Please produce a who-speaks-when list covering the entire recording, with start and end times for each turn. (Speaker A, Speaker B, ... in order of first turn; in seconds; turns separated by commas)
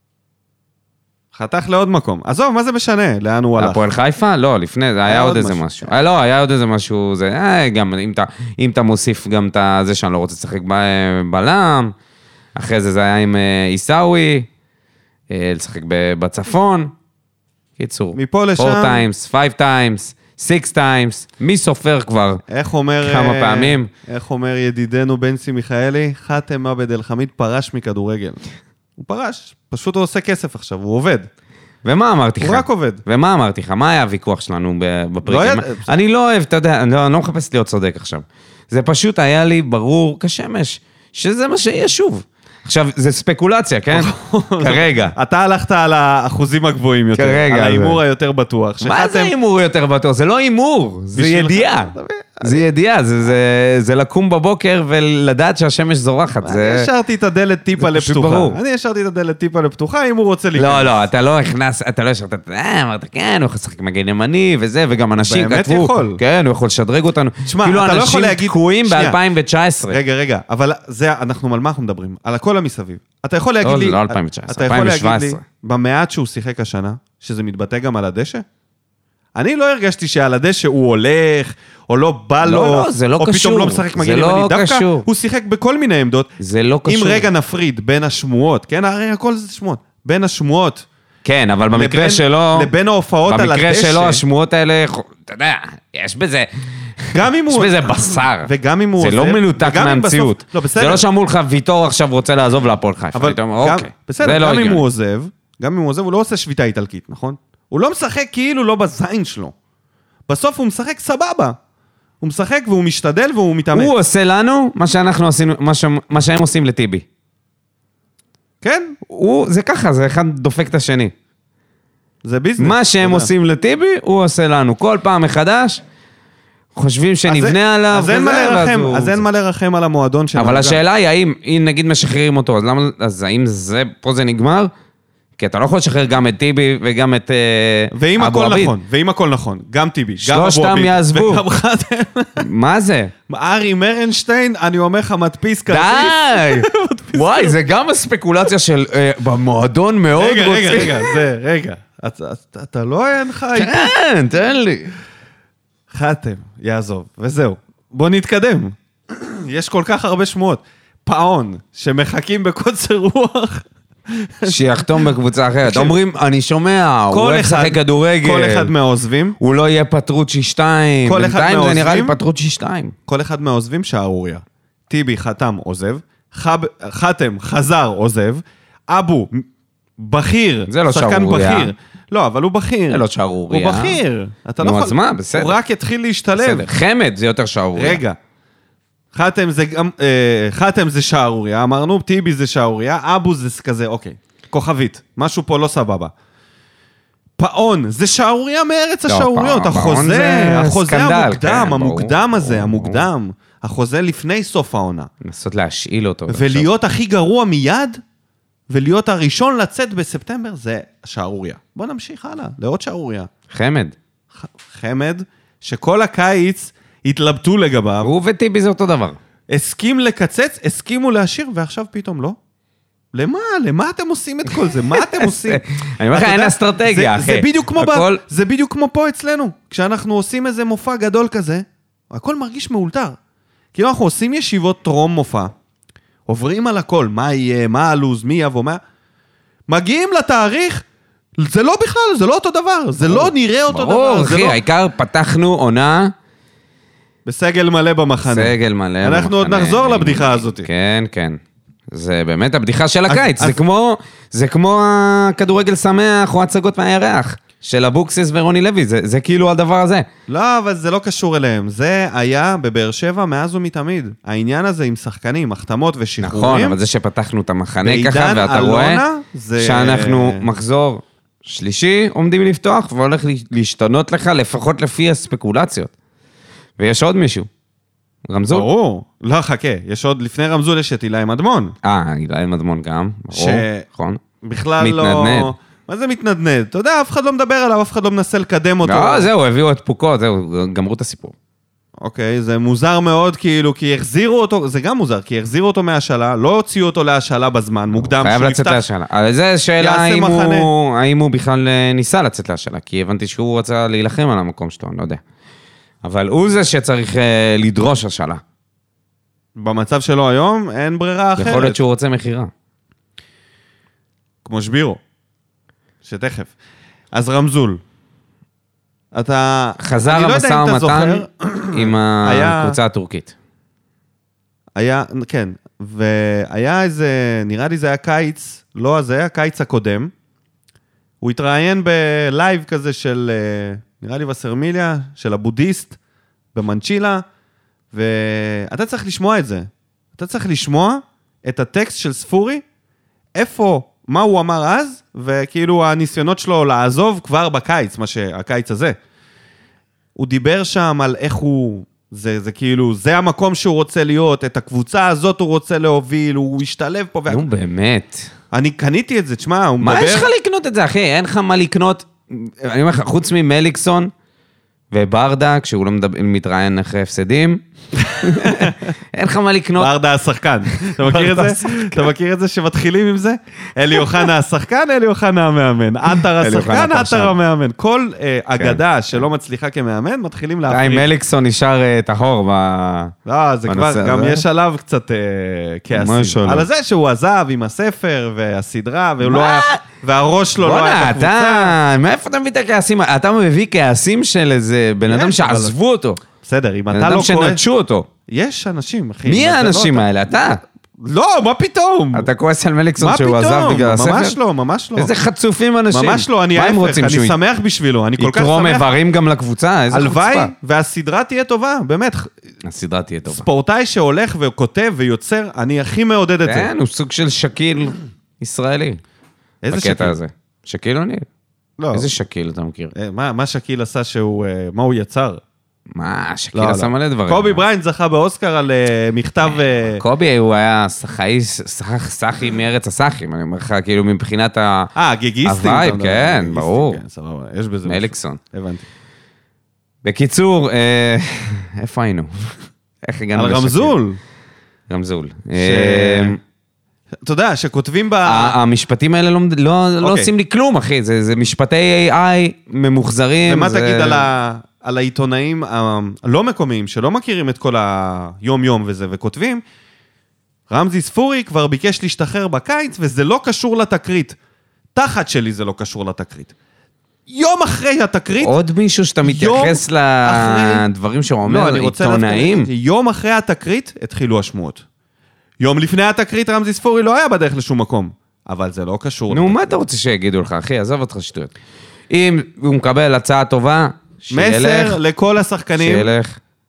Speaker A: 1.3-3.9, Speaker B: 3.6-11.9, Speaker A: 5.0-5.7, Speaker B: 12.5-14.5, Speaker B: 15.3-16.9, Speaker B: 17.8-22.4, Speaker A: 18.1-19.1, Speaker A: 22.5-28.4, Speaker B: 23.0-23.9, Speaker A: 29.0-31.3, Speaker B: 31.8-45.1, Speaker A: 32.4-33.0, Speaker A: 35.2-35.9, Speaker A: 43.9-49.3, Speaker B: 47.1-48.0, Speaker B: 48.8-56.9, Speaker A: 51.1-52.6, Speaker A: 56.4-61.0, Speaker B: 57.8-58.6, Speaker B: 60.5-70.0, Speaker A: 65.2-66.2, Speaker A: 67.5-69.2, Speaker A: 69.9-78.4, Speaker B: 73.6-75.4, Speaker A: 79.3-86.3, Speaker B: 82.4-85.1, Speaker B: 86.4-87.3, Speaker A: 86.8-90.8, Speaker B: 91.2-92.7, Speaker A: 91.7-94.2, Speaker B: 93.2-96.5, Speaker B: 97.0-104.8, Speaker A: 97.1-101.0, Speaker A: 103.1-109.5, Speaker A: 110.3-111.6, Speaker A: 112.2-113.9, Speaker B: 113.7-117.0, Speaker A: 118.6-119.0, Speaker B: 119.1-121.1, Speaker A: 122.2-123.3, Speaker B: 122.6-125.8, Speaker B: 126.7-129.2, Speaker A: 127.3-130.8, Speaker B: 130.3-134.7, Speaker B: 135.4-138.7, Speaker A: 137.9-142.4, Speaker B: 140.2-141.4, Speaker B: 142.4-143.1, Speaker A: 143.3-147.6, Speaker B: 145.7-151.2, Speaker A: 150.1-153.8, Speaker B: 153.5-154.9, Speaker A: 155.9-164.8, Speaker B: 164.4-168.7, Speaker A: 165.6-165.9, Speaker A: 167.1-169.4, Speaker B: 169.4-172.9, Speaker A: 171.0-172.2, Speaker A: 173.1-179.4, Speaker A: 180.0-186.7, Speaker B: 180.7-181.7, Speaker B: 182.9-184.0, Speaker B: 184.6-185.6, Speaker B: 186.4-188.0, Speaker A: 187.8-188.2, Speaker A: 189.1-196.1, Speaker A: 197.4-205.1, Speaker B: 199.1-203.0, Speaker B: 205.2-206.7, Speaker A: 206.3-208.0, Speaker A: 208.7-213.3, Speaker B: 213.5-213.9, Speaker A: 214.3-218.1, Speaker B: 218.0-219.2, Speaker A: 219.5-222.4, Speaker A: 223.1-233.2, Speaker B: 224.9-228.2, Speaker A: 233.7-235.5, Speaker A: 236.3-238.8, Speaker A: 239.7-240.8, Speaker A: 241.4-244.6, Speaker B: 243.1-246.1, Speaker A: 247.2-250.7, Speaker B: 248.2-251.4, Speaker B: 251.9-260.1, Speaker A: 253.1-253.6, Speaker A: 260.3-266.8, Speaker B: 266.2-269.0, Speaker A: 267.8-270.4, Speaker B: 269.6-275.9, Speaker B: 276.8-277.5, Speaker B: 278.3-278.7, Speaker A: 278.5-281.8, Speaker B: 281.8-284.2, Speaker A: 283.3-283.9, Speaker A: 284.4-289.3, Speaker B: 284.8-285.5, Speaker B: 288.8-291.3, Speaker A: 292.0-298.8, Speaker B: 297.9-305.2, Speaker A: 299.8-300.7, Speaker B: 306.0-308.4, Speaker A: 309.6-311.8, Speaker B: 311.4-312.5, Speaker A: 314.4-315.0, Speaker A: 316.0-316.5, Speaker A: 317.1-317.8, Speaker A: 319.1-322.8, Speaker B: 319.8-323.3, Speaker A: 324.8-330.1, Speaker A: 331.2-336.0, Speaker A: 336.5-337.2, Speaker A: 337.9-342.6, Speaker A: 343.3-348.9, Speaker A: 350.1-357.4, Speaker B: 357.3-358.3, Speaker A: 358.5-360.3, Speaker B: 359.8-364.1, Speaker B: 364.9-367.6, Speaker A: 368.0-368.9, Speaker B: 368.2-369.9, Speaker A: 369.8-381.1, Speaker B: 370.8-372.0, Speaker B: 376.4-377.3, Speaker B: 380.7-383.1, Speaker A: 383.2-391.7, Speaker B: 383.7-384.4, Speaker B: 385.9-386.7, Speaker B: 389.2-389.8, Speaker B: 390.6-396.2, Speaker A: 395.1-395.7, Speaker A: 396.4-397.6, Speaker B: 396.9-398.1, Speaker A: 398.3-400.0, Speaker B: 399.2-400.6, Speaker A: 401.0-402.3, Speaker B: 402.1-404.4, Speaker A: 403.0-405.1, Speaker B: 404.9-407.4, Speaker A: 405.9-408.9, Speaker B: 408.2-410.5, Speaker A: 409.9-412.3, Speaker B: 412.6-413.4, Speaker A: 413.3-416.7, Speaker B: 416.4-419.0, Speaker A: 419.6-420.2, Speaker B: 419.7-421.2, Speaker A: 421.8-422.1, Speaker B: 421.9-422.9, Speaker A: 422.9-425.4, Speaker B: 425.9-427.6, Speaker A: 426.5-430.0, Speaker B: 429.8-434.9, Speaker A: 434.9-438.8, Speaker B: 435.4-437.0, Speaker B: 437.9-438.4, Speaker B: 440.0-442.5, Speaker B: 443.0-444.0, Speaker A: 443.3-444.2, Speaker B: 444.9-446.4, Speaker A: 445.6-446.4, Speaker A: 447.2-448.6, Speaker B: 448.2-454.2, Speaker A: 450.0-450.3, Speaker A: 453.4-459.6, Speaker A: 460.7-464.4, Speaker A: 464.9-466.5, Speaker A: 467.3-468.5, Speaker B: 468.4-472.7, Speaker A: 469.2-470.8, Speaker A: 471.4-474.8, Speaker A: 475.6-479.8, Speaker B: 479.3-481.5, Speaker B: 482.1-485.0, Speaker A: 484.3-486.1, Speaker B: 485.8-486.4